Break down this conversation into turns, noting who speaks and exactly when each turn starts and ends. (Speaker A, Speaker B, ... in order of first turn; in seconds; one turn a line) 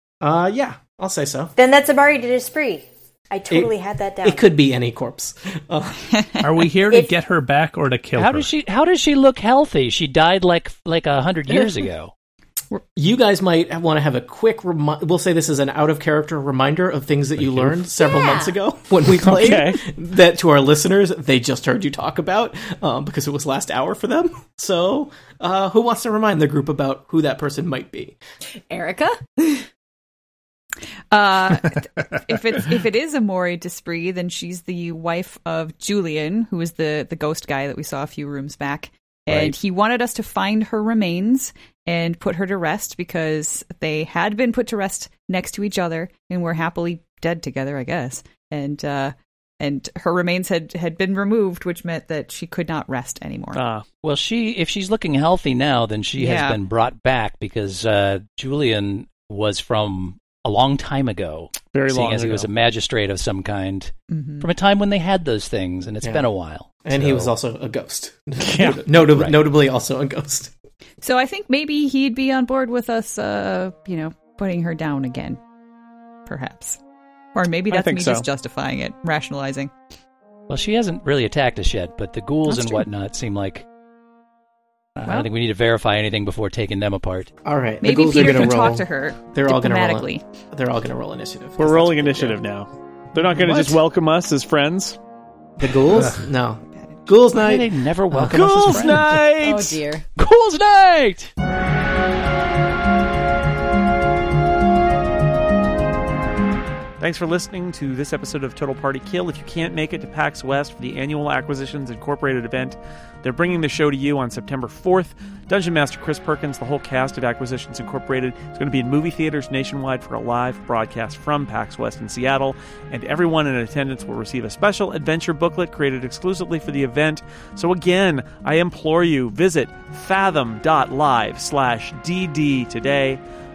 Speaker A: 0.2-1.5
Speaker B: 1.6-4.5
Speaker A: 4.2-6.3
Speaker C: 6.4-8.5
Speaker B: 6.8-7.1
Speaker D: 8.2-12.1
Speaker A: 12.9-28.2
Speaker C: 17.4-17.8
Speaker E: 18.0-18.5
Speaker F: 19.2-19.8
Speaker E: 28.7-29.6
Speaker G: 31.1-53.6
Speaker F: 53.5-53.8
Speaker D: 54.0-67.3
Speaker G: 56.2-56.6
Speaker F: 61.7-62.5
Speaker G: 64.1-64.5
Speaker A: 66.0-66.3
Speaker A: 66.8-70.5
Speaker F: 68.4-68.8
Speaker D: 69.1-69.4
Speaker G: 71.0-75.4
Speaker G: 76.2-76.8
Speaker G: 77.3-79.7
Speaker F: 77.7-78.2
Speaker D: 80.5-83.7
Speaker G: 82.5-82.8
Speaker D: 85.0-87.3
Speaker A: 87.4-92.4
Speaker G: 87.8-90.2
Speaker F: 91.6-95.0
Speaker C: 93.3-93.8
Speaker A: 95.6-99.0
Speaker D: 97.3-99.3
Speaker F: 98.2-99.7
Speaker E: 99.3-100.0
Speaker D: 100.2-101.3
Speaker F: 107.0-133.2